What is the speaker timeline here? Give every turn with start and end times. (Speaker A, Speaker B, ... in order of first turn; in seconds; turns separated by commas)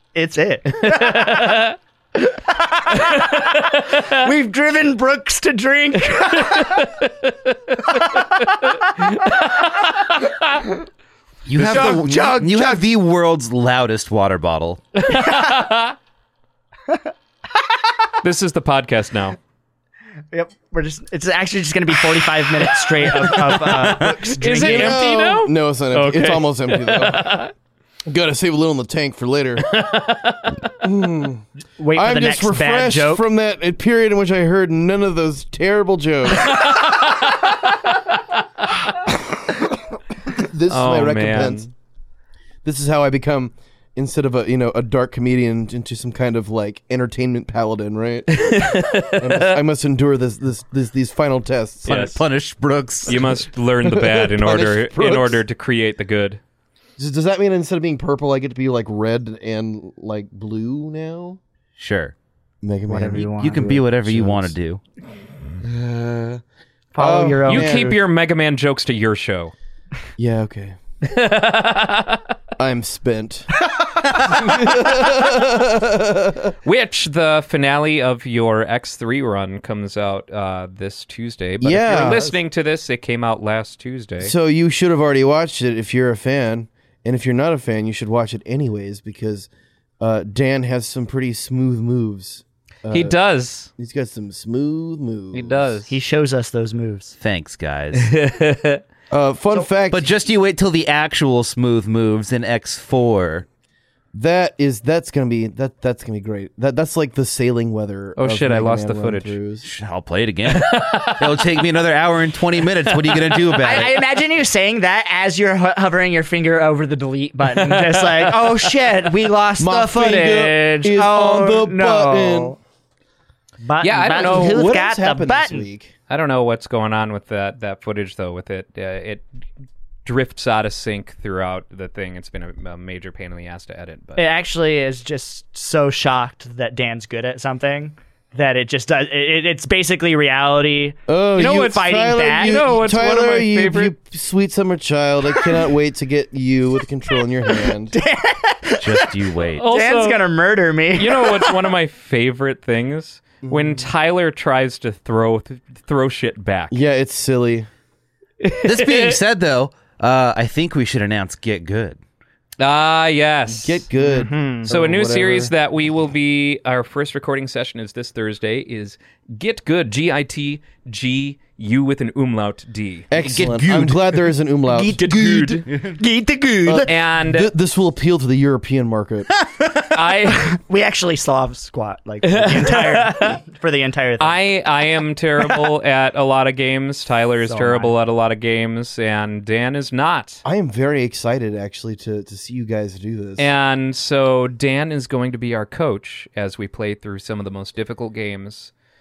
Speaker A: 0.1-6.9, Speaker B: 0.8-1.8, Speaker B: 2.9-4.1, Speaker B: 6.4-10.3, Speaker C: 11.5-14.9, Speaker B: 11.6-12.0, Speaker A: 11.7-12.8, Speaker B: 15.0-15.9, Speaker A: 15.2-15.6, Speaker B: 18.2-19.4, Speaker A: 20.3-25.1, Speaker B: 22.6-27.5, Speaker D: 24.0-27.4, Speaker D: 28.1-29.9, Speaker B: 29.7-30.6, Speaker D: 30.8-36.7, Speaker A: 31.8-33.2, Speaker B: 36.4-37.5, Speaker D: 40.3-41.7, Speaker B: 40.7-41.7, Speaker D: 42.6-52.1, Speaker B: 48.3-49.6, Speaker C: 51.9-53.4, Speaker B: 51.9-52.2, Speaker B: 53.1-56.4, Speaker D: 53.1-55.4, Speaker D: 57.0-61.4, Speaker C: 61.8-62.1, Speaker D: 62.6-64.5, Speaker A: 62.9-63.8, Speaker C: 63.4-64.8, Speaker D: 65.6-66.4, Speaker A: 66.9-68.0, Speaker D: 67.0-68.0, Speaker B: 67.5-69.5, Speaker D: 70.2-70.8, Speaker B: 71.0-72.2, Speaker D: 72.6-73.5, Speaker D: 74.2-76.5, Speaker B: 76.6-84.3, Speaker D: 81.6-82.4, Speaker D: 84.2-89.5, Speaker D: 90.0-93.2, Speaker B: 92.9-93.7, Speaker D: 93.8-95.7, Speaker B: 95.3-95.9, Speaker A: 95.9-97.2, Speaker C: 97.2-98.1, Speaker B: 97.9-98.8, Speaker D: 99.1-100.1, Speaker C: 99.9-103.5, Speaker D: 104.1-109.7, Speaker B: 108.2-109.4, Speaker C: 109.6-114.0, Speaker B: 110.5-111.6, Speaker B: 112.9-113.6, Speaker A: 113.6-122.6, Speaker B: 117.5-118.7, Speaker D: 119.6-122.6, Speaker A: 123.6-125.7, Speaker B: 123.8-124.7, Speaker D: 124.1-125.9, Speaker B: 126.1-129.3, Speaker B: 130.1-134.3, Speaker A: 134.2-142.7, Speaker D: 141.1-147.9, Speaker B: 141.4-143.9, Speaker A: 147.9-151.6, Speaker C: 148.8-149.7, Speaker B: 149.6-150.3, Speaker B: 150.9-156.8, Speaker D: 153.4-153.9, Speaker D: 156.7-157.7, Speaker B: 158.4-159.2, Speaker C: 158.6-162.0, Speaker B: 162.6-173.1, Speaker D: 163.5-165.5, Speaker A: 164.1-164.6, Speaker D: 173.1-175.6, Speaker C: 173.2-174.2, Speaker B: 174.9-175.7, Speaker A: 175.8-176.9, Speaker D: 176.7-179.3, Speaker B: 176.9-177.5, Speaker B: 179.9-180.5, Speaker A: 180.2-184.4, Speaker B: 182.2-183.4, Speaker B: 184.2-190.4, Speaker A: 187.4-187.9, Speaker D: 190.4-193.5, Speaker B: 193.4-198.7